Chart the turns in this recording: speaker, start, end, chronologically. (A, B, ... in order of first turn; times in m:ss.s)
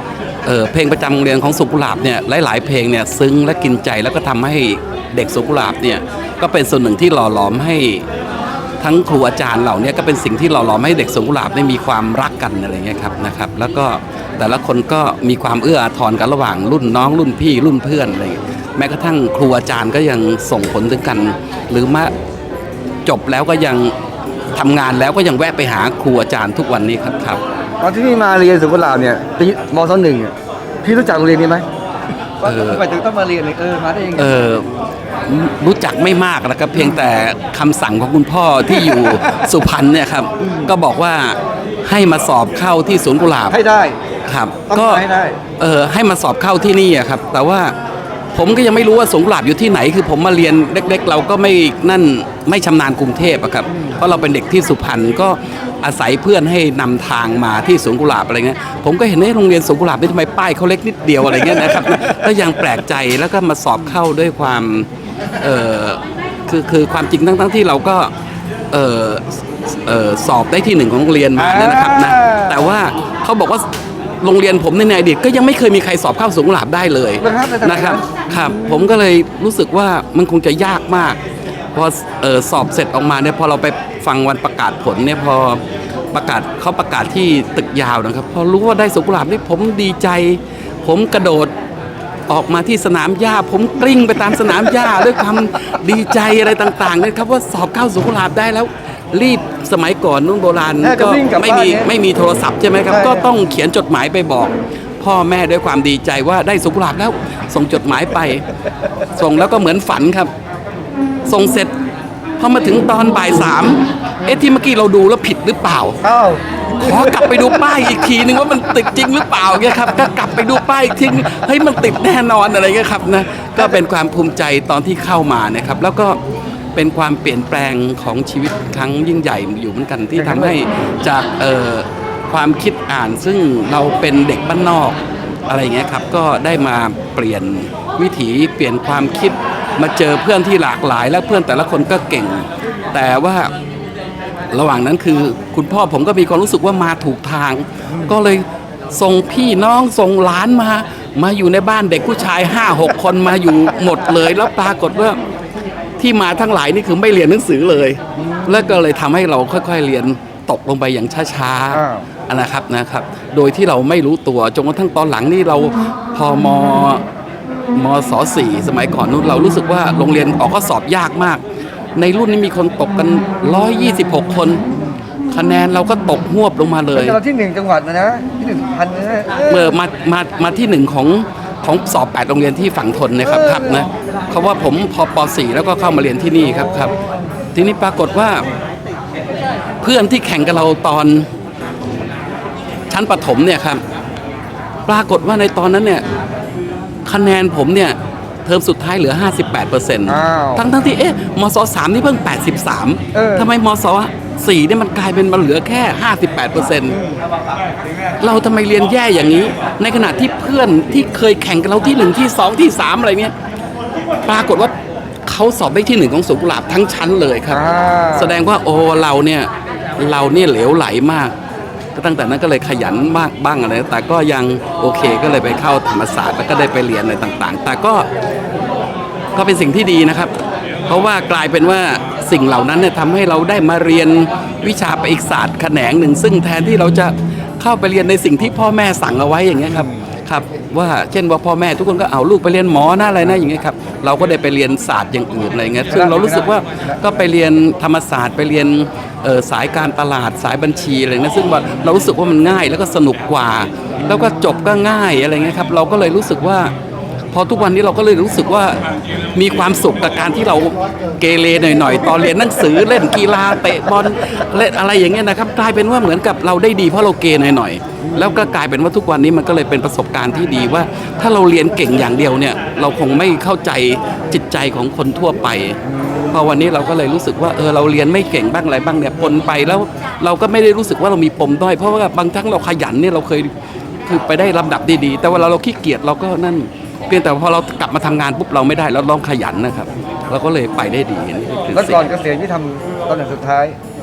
0:00.5-0:08.0 A
0:08.8-0:22.1 A
0:23.0-0:23.9 A
0:24.5-0:27.4 A
0:27.8-0:31.6 B
0:32.4-0:34.3 B
0:32.4-0:32.8 A
0:34.2-0:34.7 A
0:35.2-0:43.6 A
0:36.8-0:37.1 B
0:38.7-0:39.4 B
0:40.4-0:40.7 B
0:43.5-0:44.0 B
0:44.3-0:45.0 A
0:44.7-0:45.4 B
0:45.6-0:47.7 A
0:48.3-1:04.9 A
0:53.7-0:54.0 B
1:01.3-1:02.1 B
1:05.4-1:08.1 A
1:08.7-1:13.6 A
1:11.4-1:12.7 B
1:14.2-1:21.2 A
1:17.2-1:18.9 B
1:21.7-1:25.6 A
1:26.1-1:31.5 A
1:32.3-1:48.4 A
1:40.8-1:41.9 B
1:42.9-1:43.2 B
1:49.2-1:50.3 A
1:51.3-1:51.7 A
1:52.4-1:56.0 A
1:56.0-1:57.4 B
1:56.8-2:06.2 A
2:06.8-2:23.5 A
2:10.2-2:10.5 B
2:24.5-2:35.2 A
2:27.9-2:28.1 B
2:36.0-2:47.0 A
2:38.2-2:38.8 B
2:41.7-2:42.1 B
2:47.8-2:51.4 A
2:52.0-2:54.6 A
2:54.8-2:55.0 B
2:55.3-2:57.2 A
2:57.0-2:59.7 B
2:59.5-3:06.9 A
3:03.2-3:03.9 B
3:06.5-3:07.0 B
3:07.5-3:08.4 A
3:09.8-3:11.3 A
3:12.9-3:13.8 A
3:14.9-3:16.0 A
3:17.0-3:27.0 A
3:20.0-3:20.6 B
3:23.1-3:23.5 B
3:26.9-3:27.2 B
3:28.2-3:33.3 A
3:34.2-3:34.7 A
3:35.2-3:41.3 A
3:37.5-3:38.4 B
3:42.0-3:48.1 A
3:49.3-3:50.3 A
3:50.9-4:16.7 A
3:59.7-4:00.0 B
4:05.9-4:07.0 B
4:14.0-4:14.4 B
4:17.3-4:18.8 A
4:19.3-4:35.8 A
4:28.0-4:28.5 B
4:35.8-4:36.5 B
4:36.3-4:43.5 A
4:44.0-4:52.1 A
4:51.7-4:53.8 B